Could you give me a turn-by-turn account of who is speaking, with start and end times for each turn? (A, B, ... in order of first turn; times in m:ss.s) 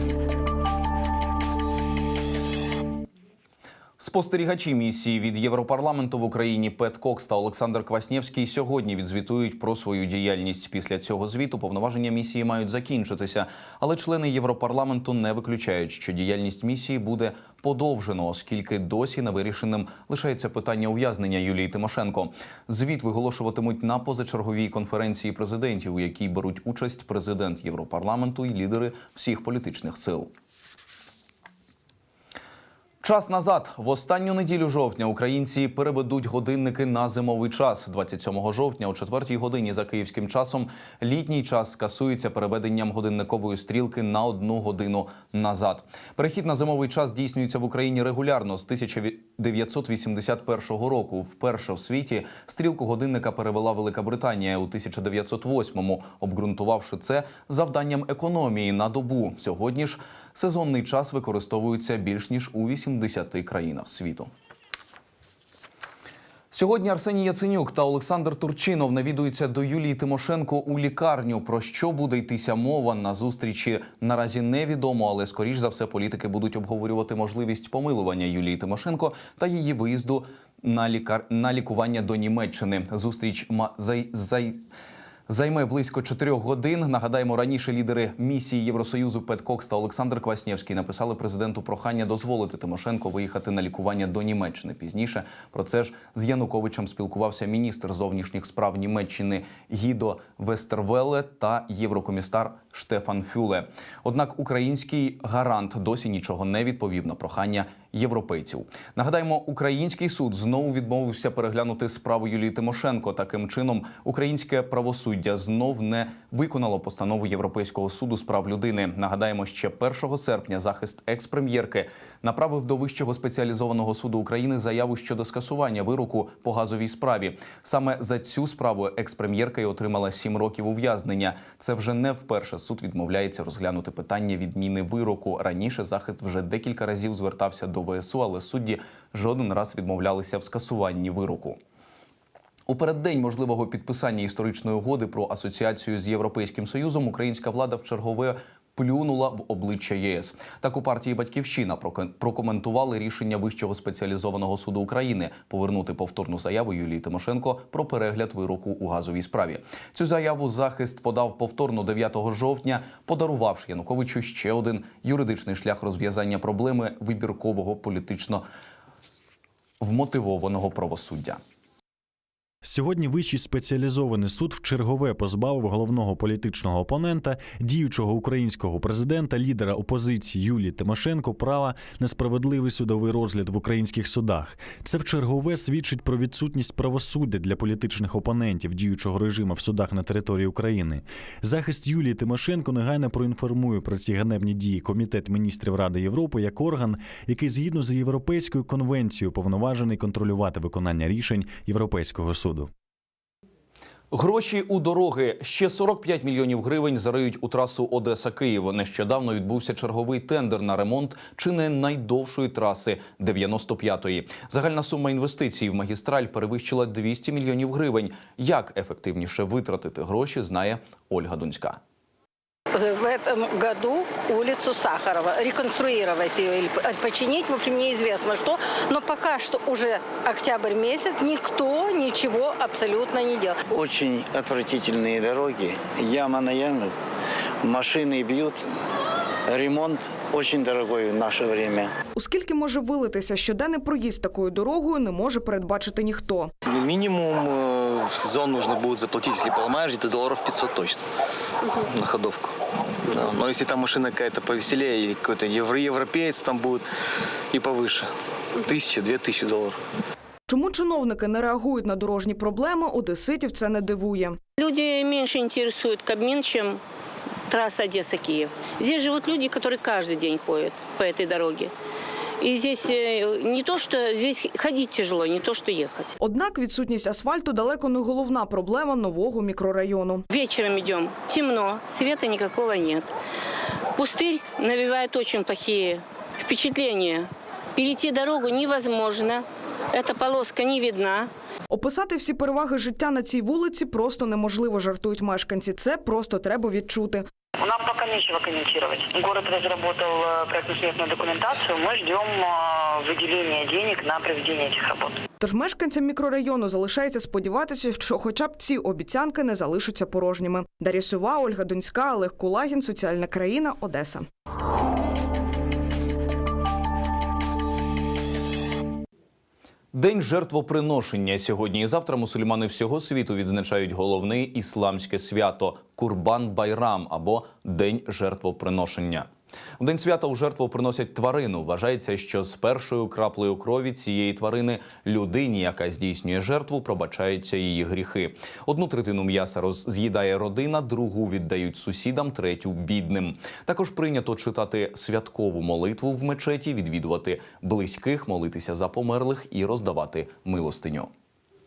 0:04.0-0:30.3 A
0:33.0-1:04.3 A
1:06.5-1:24.6 A
1:25.3-2:21.6 A
2:22.7-2:48.4 A
2:49.8-2:51.4 A
2:52.6-3:22.7 B
3:24.1-3:41.8 A
3:42.7-3:53.6 C
3:53.7-3:56.9 D
3:57.6-3:58.6 D
3:59.5-4:01.9 D
4:02.2-4:06.5 E
4:06.7-4:11.0 F
4:11.8-4:16.8 F
4:17.5-4:18.1 F
4:18.6-4:19.8 F
4:20.5-4:24.4 E
4:24.6-4:26.8 G
4:27.5-4:31.7 G
4:32.4-4:36.1 G
4:36.2-4:40.2 E
4:40.3-4:43.1 G
4:44.0-4:51.3 G
4:51.7-4:57.3 E
4:57.6-5:05.2 H
5:05.4-5:14.3 E
5:19.9-5:29.3 A
5:29.8-5:51.1 A